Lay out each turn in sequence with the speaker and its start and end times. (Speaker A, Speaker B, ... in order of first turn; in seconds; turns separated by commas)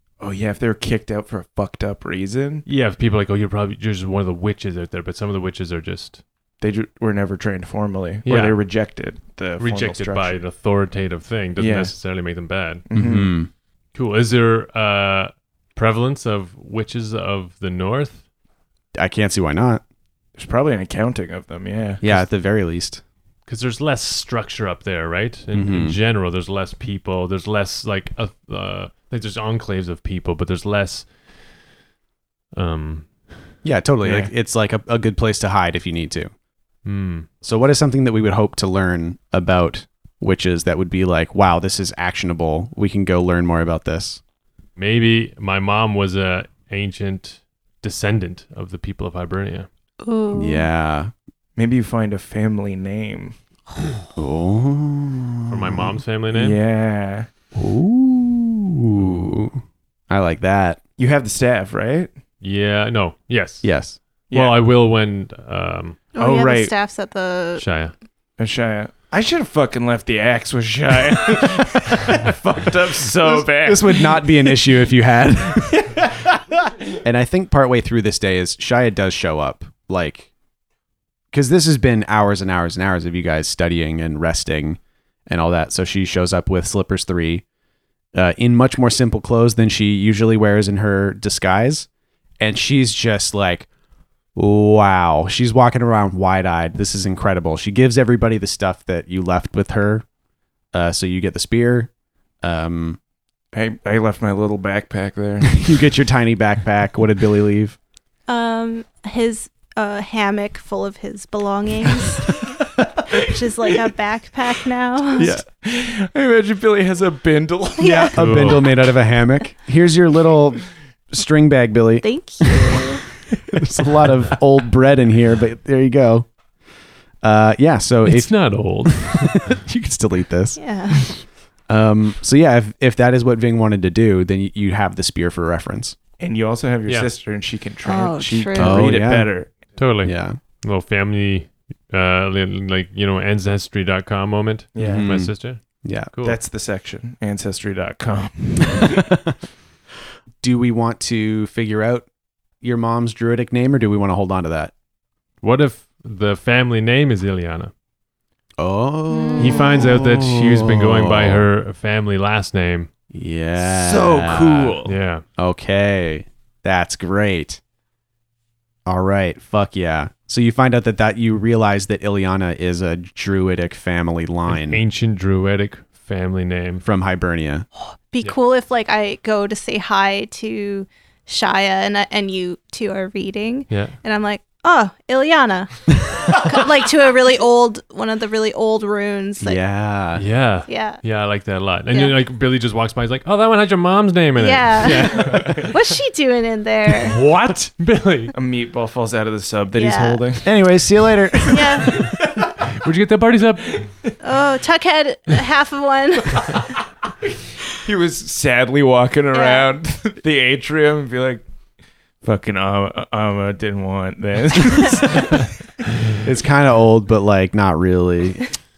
Speaker A: 0.2-2.6, Speaker B: 2.6-6.2, Speaker A: 6.6-10.3, Speaker B: 8.2-8.6, Speaker B: 9.6-12.8, Speaker A: 11.6-11.9, Speaker A: 12.9-13.3, Speaker C: 12.9-13.5, Speaker B: 13.9-18.2, Speaker C: 18.9-19.8, Speaker A: 20.4-22.1, Speaker C: 22.0-23.0, Speaker B: 23.4-31.1, Speaker C: 25.5-26.0, Speaker B: 32.5-33.4, Speaker C: 33.6-36.3, Speaker A: 34.0-34.3, Speaker B: 36.8-37.3, Speaker C: 37.4-44.2, Speaker B: 44.8-49.7, Speaker D: 50.0-50.6, Speaker C: 50.3-51.1, Speaker A: 51.5-53.4, Speaker C: 54.1-55.9, Speaker B: 55.5-56.6, Speaker A: 56.3-57.3, Speaker C: 57.5-59.6, Speaker C: 60.1-60.8, Speaker A: 61.0-62.1, Speaker B: 62.4-63.7, Speaker C: 63.6-64.0, Speaker B: 64.3-66.0, Speaker D: 66.1-67.6, Speaker A: 66.2-66.7, Speaker B: 67.6-67.9, Speaker A: 68.4-74.6, Speaker C: 73.2-76.1, Speaker A: 75.6-76.0, Speaker C: 77.0-80.3, Speaker C: 81.3-87.4, Speaker C: 88.1-91.9, Speaker C: 92.4-93.7, Speaker C: 94.3-100.0, Speaker C: 100.7-101.9, Speaker C: 102.4-103.0, Speaker A: 103.5-105.6, Speaker C: 105.5-107.8, Speaker D: 108.3-112.5, Speaker D: 113.1-115.3, Speaker C: 115.2-115.4, Speaker A: 115.2-118.1, Speaker D: 117.8-118.2, Speaker C: 117.8-122.8, Speaker B: 118.2-118.7, Speaker D: 122.0-123.0, Speaker C: 123.5-126.3, Speaker C: 127.2-136.0, Speaker B: 128.0-129.5, Speaker D: 130.6-131.1, Speaker A: 136.2-139.6, Speaker D: 137.8-138.9, Speaker C: 138.5-139.3, Speaker B: 139.8-145.6, Speaker C: 140.0-140.4, Speaker A: 144.8-145.1, Speaker C: 144.8-146.1, Speaker B: 146.1-146.4, Speaker A: 146.2-149.1, Speaker C: 150.4-152.1, Speaker C: 152.6-154.7, Speaker B: 155.4-157.7, Speaker C: 158.6-161.4, Speaker D: 159.1-159.8, Speaker B: 159.4-162.9, Speaker C: 163.1-164.8, Speaker A: 163.6-164.9, Speaker B: 164.8-165.2, Speaker C: 165.4-167.6, Speaker C: 168.8-174.8, Speaker B: 174.5-176.8, Speaker C: 176.8-177.7, Speaker D: 177.8-189.6, Speaker B: 183.7-183.9, Speaker C: 189.4-190.2, Speaker B: 190.2-195.8, Speaker D: 190.7-191.0, Speaker D: 191.9-192.2, Speaker D: 194.4-197.2, Speaker A: 195.3-195.6, Speaker B: 196.9-198.3, Speaker A: 198.3-200.5, Speaker D: 199.7-200.2, Speaker C: 200.4-202.0, Speaker D: 201.5-201.9, Speaker A: 201.5-202.5, Speaker B: 202.7-203.8, Speaker D: 204.2-206.6, Speaker A: 207.7-211.4, Speaker D: 209.3-209.7, Speaker A: 212.2-215.5, Speaker C: 216.2-218.4